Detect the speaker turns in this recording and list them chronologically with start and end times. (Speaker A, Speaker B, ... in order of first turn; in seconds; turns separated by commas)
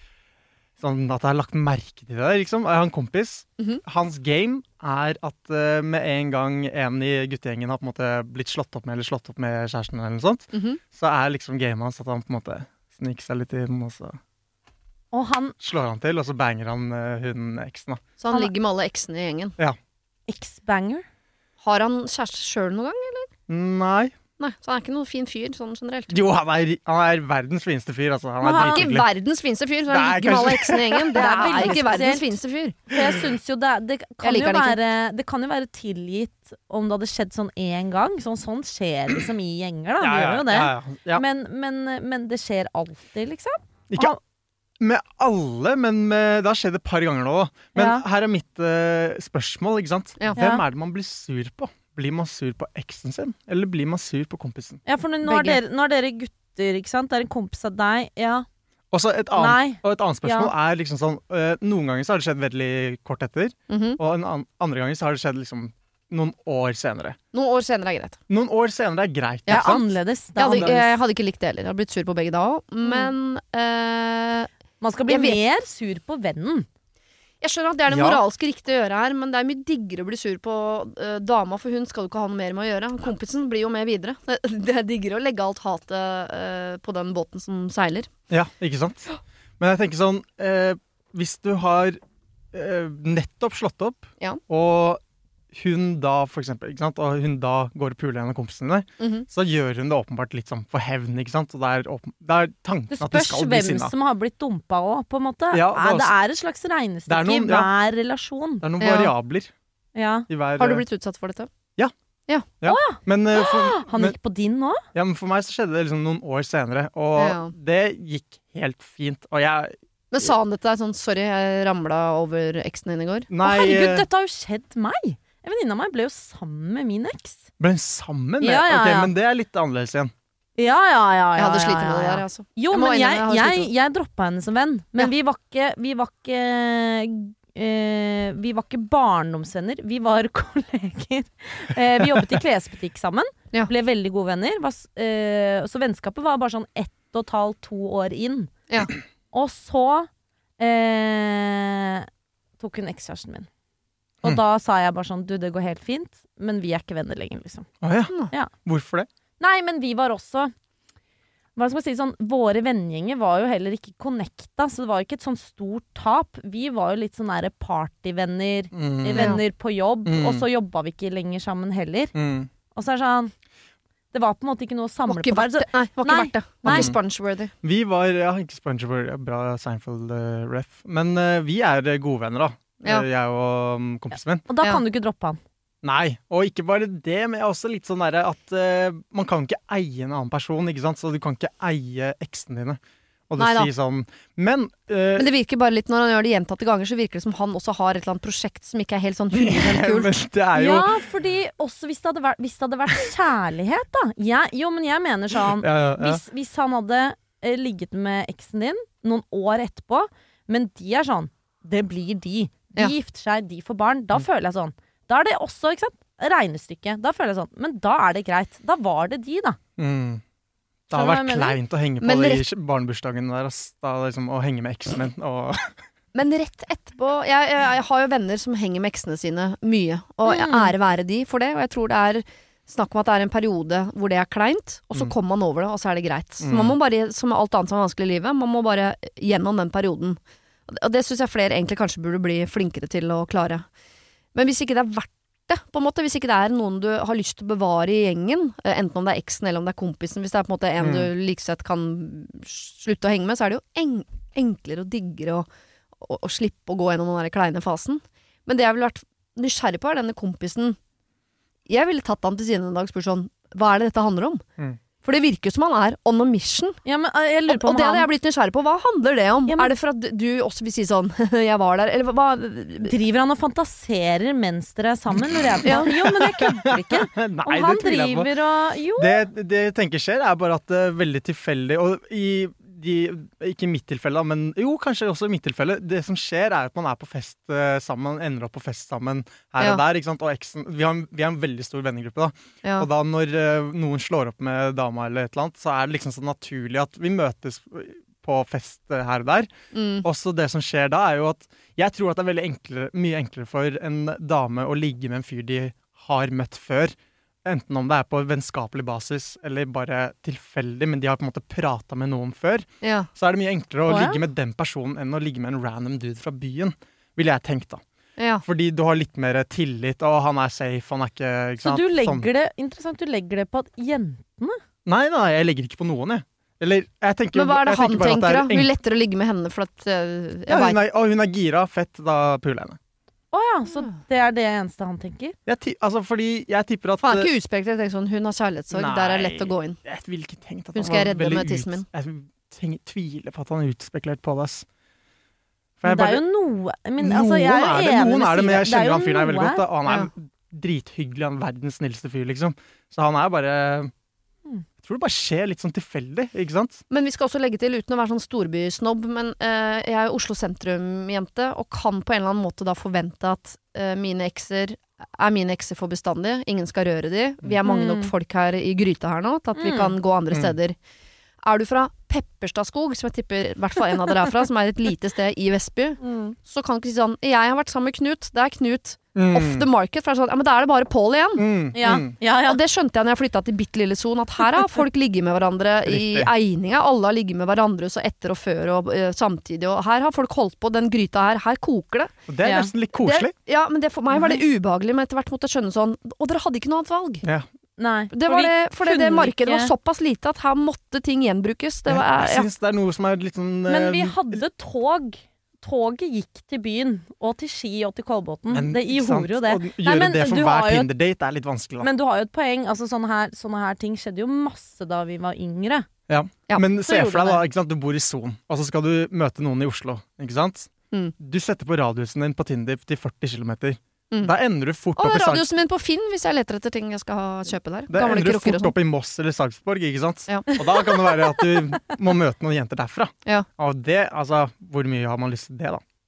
Speaker A: 0.8-14.2, Speaker B: 10.5-10.8, Speaker C: 15.1-15.5, Speaker A: 15.6-18.0, Speaker B: 18.2-19.6, Speaker C: 20.3-21.1, Speaker B: 21.6-23.3, Speaker A: 23.5-24.1, Speaker B: 24.4-26.2, Speaker A: 26.1-29.1, Speaker C: 28.4-28.9, Speaker B: 28.4-32.8, Speaker A: 29.9-31.9, Speaker C: 31.1-32.4, Speaker C: 32.9-44.2, Speaker B: 34.2-34.8, Speaker A: 40.0-41.2, Speaker A: 43.9-44.2, Speaker A: 44.8-54.8, Speaker C: 47.8-48.0, Speaker C: 50.4-50.6, Speaker C: 54.9-58.5, Speaker B: 55.2-55.6, Speaker A: 58.9-67.2, Speaker C: 59.4-60.5, Speaker B: 63.7-64.0, Speaker B: 67.3-68.2, Speaker A: 68.3-69.9, Speaker C: 69.5-71.0, Speaker B: 70.4-74.5, Speaker A: 70.4-70.8, Speaker C: 72.8-73.1, Speaker C: 74.8-76.7, Speaker B: 75.1-75.4, Speaker B: 77.4-88.1, Speaker A: 77.9-78.2, Speaker A: 88.3-89.1, Speaker A: 89.6-92.0, Speaker A: 92.5-95.0, Speaker A: 95.5-103.9, Speaker B: 99.0-99.3, Speaker C: 102.9-108.7, Speaker A: 105.5-106.1, Speaker A: 107.1-107.7, Speaker A: 108.6-109.5, Speaker B: 108.8-109.1, Speaker C: 110.0-110.3, Speaker A: 110.3-110.8, Speaker B: 110.6-111.5, Speaker A: 112.6-114.2, Speaker C: 112.7-114.8, Speaker A: 114.9-120.3, Speaker B: 117.2-117.5, Speaker B: 120.1-123.3, Speaker A: 123.3-124.1, Speaker C: 123.4-127.5, Speaker A: 127.6-130.1, Speaker C: 128.4-129.1, Speaker C: 130.6-148.5, Speaker B: 131.4-133.7, Speaker C: 149.3-150.1, Speaker C: 150.6-152.1, Speaker C: 152.6-153.5, Speaker C: 154.2-157.7, Speaker A: 157.8-158.1, Speaker A: 158.6-159.1, Speaker C: 159.4-160.5, Speaker C: 161.6-172.1, Speaker A: 168.7-169.4, Speaker B: 169.2-169.4, Speaker A: 170.1-170.5, Speaker A: 172.2-172.5, Speaker C: 172.7-173.3, Speaker C: 174.1-176.9, Speaker B: 175.1-177.5, Speaker A: 176.7-177.0, Speaker A: 177.6-184.5, Speaker C: 184.5-185.4, Speaker A: 185.8-192.8, Speaker A: 193.3-195.3, Speaker B: 193.4-193.7, Speaker B: 195.2-200.1, Speaker A: 199.3-200.9, Speaker C: 200.6-219.6, Speaker A: 205.5-206.2, Speaker A: 219.8-220.2, Speaker A: 220.9-225.8, Speaker C: 220.9-221.6, Speaker B: 222.0-222.5, Speaker B: 226.1-243.7, Speaker C: 230.3-230.7, Speaker A: 236.4-236.8, Speaker B: 244.3-255.5, Speaker A: 250.8-251.1, Speaker B: 256.0-260.8, Speaker B: 261.7-264.4, Speaker B: 265.0-266.8, Speaker C: 266.9-268.1, Speaker B: 267.5-272.9, Speaker C: 272.8-279.2, Speaker A: 275.1-278.3, Speaker A: 279.0-299.5, Speaker B: 299.7-300.1, Speaker A: 300.0-317.8, Speaker B: 312.8-313.1, Speaker C: 313.9-314.2, Speaker B: 318.2-318.4, Speaker A: 318.4-322.3, Speaker C: 321.6-324.6, Speaker A: 324.9-328.7, Speaker B: 327.3-330.8, Speaker A: 330.5-332.8, Speaker C: 333.3-335.4, Speaker A: 335.5-337.3, Speaker B: 337.0-339.8, Speaker A: 338.7-344.7, Speaker B: 340.7-341.9, Speaker A: 345.8-346.2, Speaker C: 345.9-349.6, Speaker A: 347.0-353.9, Speaker A: 354.8-356.8, Speaker B: 356.9-370.8, Speaker C: 367.7-368.1, Speaker C: 369.6-369.9, Speaker B: 371.4-381.8, Speaker C: 376.0-376.4, Speaker A: 379.2-379.7, Speaker A: 381.4-382.1, Speaker C: 381.8-382.6, Speaker B: 382.4-392.1, Speaker A: 385.9-386.3, Speaker A: 392.3-393.3, Speaker C: 392.4-392.7, Speaker B: 393.0-397.2, Speaker C: 394.1-394.4, Speaker C: 397.8-399.7, Speaker B: 398.1-402.5, Speaker A: 401.9-404.4, Speaker C: 403.7-410.9, Speaker A: 408.5-411.9, Speaker C: 411.8-415.9, Speaker A: 416.1-425.4, Speaker C: 416.6-417.4, Speaker B: 425.0-428.8, Speaker A: 427.9-435.8